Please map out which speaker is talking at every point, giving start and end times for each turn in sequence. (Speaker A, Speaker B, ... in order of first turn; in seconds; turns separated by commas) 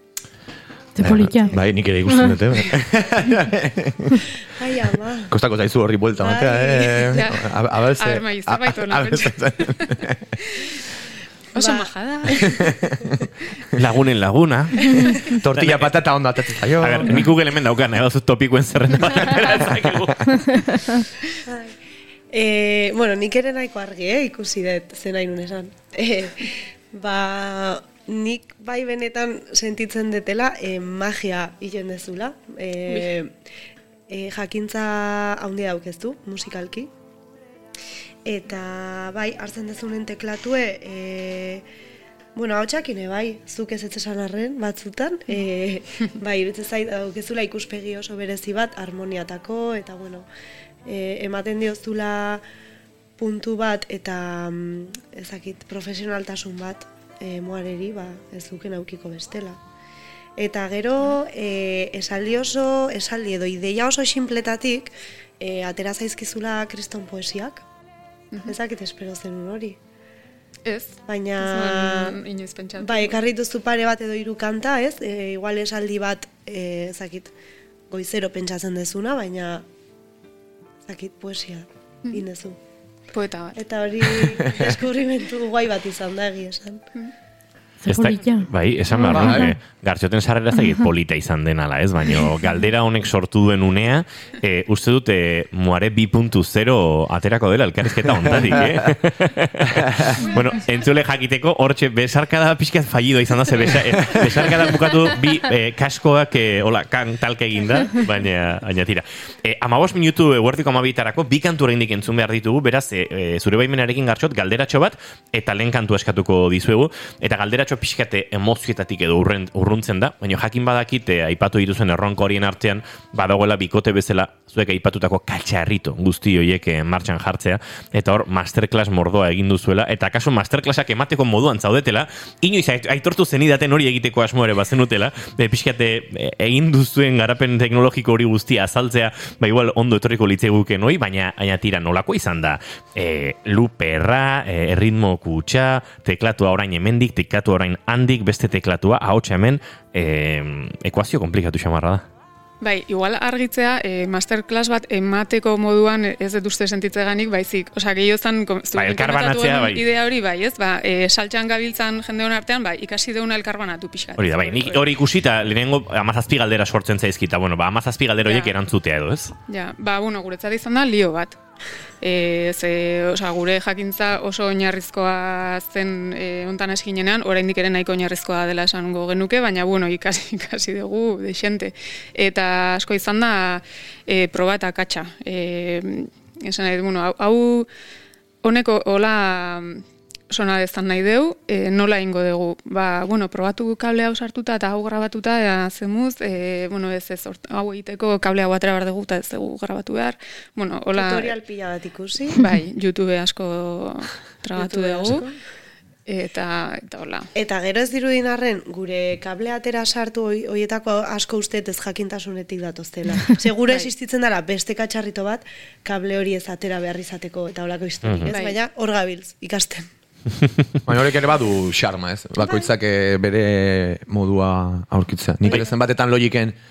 Speaker A: 0.9-2.4, Speaker B: 1.0-4.2, Speaker C: 4.5-5.3, Speaker B: 5.3-10.3, Speaker C: 6.2-7.2, Speaker D: 7.1-10.7, Speaker D: 11.5-12.7, Speaker C: 11.6-13.1, Speaker B: 12.4-13.8, Speaker E: 13.8-15.9, Speaker B: 15.3-17.3, Speaker E: 16.8-20.7, Speaker B: 19.5-19.9, Speaker A: 20.5-21.0, Speaker C: 21.4-21.7, Speaker C: 22.3-33.3, Speaker D: 32.9-33.1, Speaker C: 34.1-36.9, Speaker C: 38.2-41.6, Speaker C: 42.3-50.3, Speaker C: 50.9-52.4, Speaker C: 53.2-59.6, Speaker C: 60.4-67.6, Speaker C: 68.4-69.8, Speaker D: 70.6-73.2, Speaker C: 71.1-72.2, Speaker C: 72.8-77.3, Speaker C: 77.9-79.6, Speaker C: 80.8-82.6, Speaker D: 83.1-83.6, Speaker C: 83.5-86.8, Speaker A: 87.8-89.5, Speaker E: 87.9-152.0, Speaker B: 89.0-89.5, Speaker A: 90.6-90.8, Speaker B: 98.2-98.8, Speaker D: 100.1-100.9, Speaker D: 152.6-164.9, Speaker E: 158.7-159.8, Speaker E: 164.2-169.3, Speaker D: 168.2-168.6, Speaker D: 169.5-171.4, Speaker D: 172.0-187.7, Speaker D: 188.4-201.4, Speaker C: 200.9-202.4, Speaker D: 202.3-205.3, Speaker C: 204.6-205.3, Speaker D: 206.1-207.3, Speaker C: 207.3-219.9, Speaker E: 218.0-218.3, Speaker D: 218.3-218.6, Speaker B: 220.8-226.6, Speaker C: 222.4-222.7